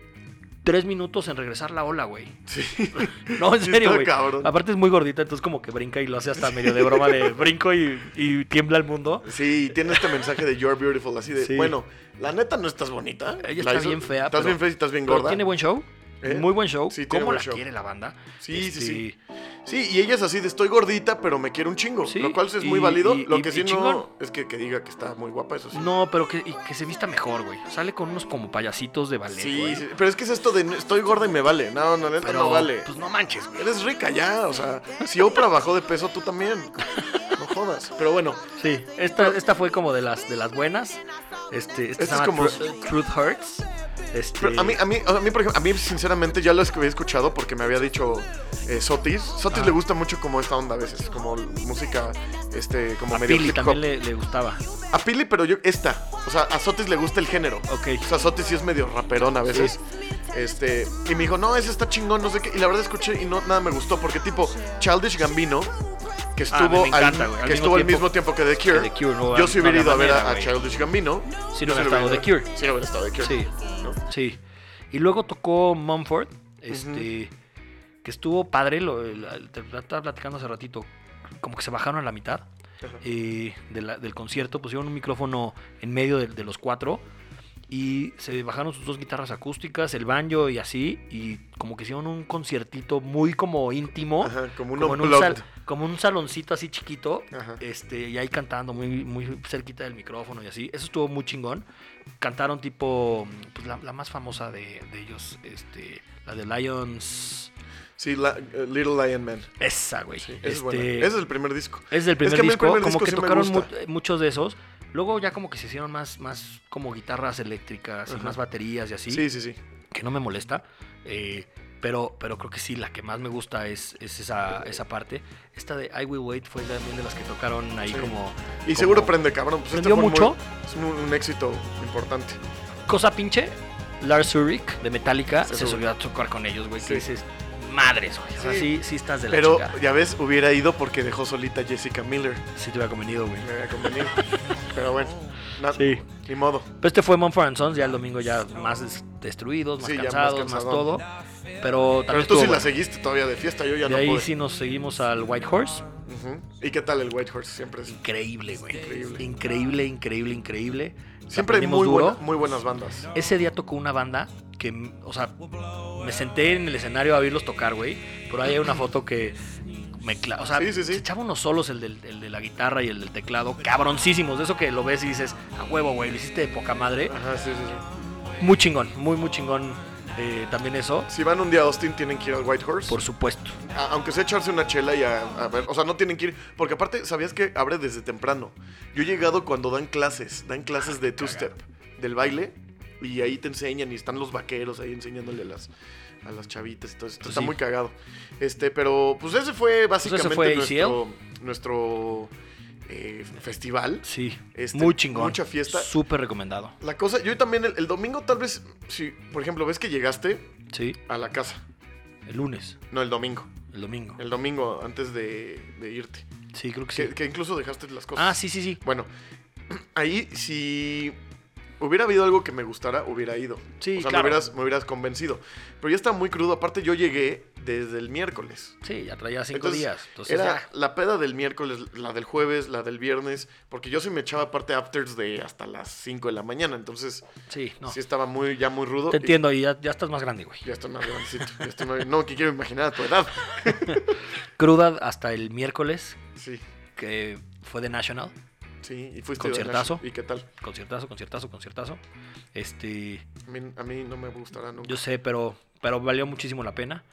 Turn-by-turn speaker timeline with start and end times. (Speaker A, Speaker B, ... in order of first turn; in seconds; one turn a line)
Speaker A: 0.6-2.4
Speaker B: 2.5-4.5
Speaker A: 3.0-10.1
Speaker B: 6.4-7.4
Speaker B: 9.2-15.4
Speaker A: 11.4-11.8
Speaker A: 13.4-19.2
Speaker B: 16.2-17.6
Speaker B: 18.4-19.1
Speaker B: 19.6-25.9
Speaker A: 22.1-24.1
Speaker A: 25.7-29.9
Speaker B: 29.3-32.9
Speaker A: 32.2-33.7
Speaker B: 33.6-38.5
Speaker A: 38.6-41.0
Speaker A: 41.5-44.8
Speaker B: 42.0-42.6
Speaker B: 44.4-53.8
Speaker A: 49.5-49.8
Speaker A: 53.1-54.6
Speaker B: 54.9-65.7
Speaker A: 57.7-58.1
Speaker A: 59.5-59.8
Speaker B: 66.3-74.0
Speaker A: 66.5-68.1
Speaker A: 68.7-70.5
Speaker A: 71.5-72.5
Speaker A: 73.2-74.4
Speaker A: 74.9-77.3
Speaker B: 76.7-77.1
Speaker A: 78.0-80.9
Speaker A: 81.4-82.5
Speaker A: 83.0-87.0
Speaker A: 87.7-101.7
Speaker B: 94.2-95.5
Speaker B: 97.3-97.6
Speaker A: 102.2-107.5
Speaker B: 108.0-109.5
Speaker A: 109.6-111.1
Speaker B: 110.2-113.7
Speaker A: 111.9-119.2
Speaker B: 118.1-118.4
Speaker B: 119.1-119.6
Speaker A: 119.9-129.2
Speaker B: 127.8-128.1
Speaker B: 128.7-132.4
Speaker A: 129.7-130.4
Speaker A: 132.9-139.8
Speaker B: 135.4-135.9
Speaker B: 136.8-137.1
Speaker B: 138.4-138.7
Speaker B: 139.3-142.4
Speaker A: 142.6-143.5
Speaker B: 143.4-144.2
Speaker B: 144.7-146.7
Speaker A: 145.7-146.1
Speaker A: 146.8-151.1
Speaker B: 149.8-150.9
Speaker A: 151.6-152.7
Speaker B: 152.1-154.3
Speaker A: 153.8-155.8
Speaker B: 156.1-158.0
Speaker A: 157.9-162.2
Speaker B: 158.7-159.2
Speaker B: 161.3-163.1
Speaker A: 163.1-177.2
Speaker B: 170.6-171.1
Speaker B: 177.1-177.8
Speaker A: 178.4-181.1
Speaker B: 181.1-183.0
Speaker A: 182.9-183.6
Speaker B: 183.7-195.7
Speaker A: 190.9-191.5
Speaker B: 196.2-202.3
Speaker A: 197.2-197.6
Speaker A: 200.0-201.0
Speaker B: 202.9-205.9
Speaker A: 204.0-206.8
Speaker B: 206.8-210.5
Speaker A: 210.7-211.0
Speaker B: 211.1-211.6
Speaker A: 212.3-212.8
Speaker B: 212.9-213.5
Speaker A: 213.7-214.2
Speaker B: 214.2-216.3
Speaker A: 216.5-217.1
Speaker B: 216.9-219.1
Speaker A: 218.2-218.8
Speaker B: 219.7-221.2
Speaker B: 221.8-228.8
Speaker A: 223.8-224.4
Speaker A: 228.8-230.7
Speaker B: 229.5-237.3
Speaker A: 237.5-238.0
Speaker B: 237.9-239.4
Speaker A: 239.1-240.7
Speaker B: 240.6-244.0
Speaker A: 243.6-246.2
Speaker B: 246.4-246.6
Speaker A: 247.0-248.3
Speaker B: 248.8-250.5
Speaker A: 249.4-250.0
Speaker A: 250.6-252.0
Speaker A: 252.6-253.3
Speaker B: 253.5-255.0
Speaker A: 254.8-257.0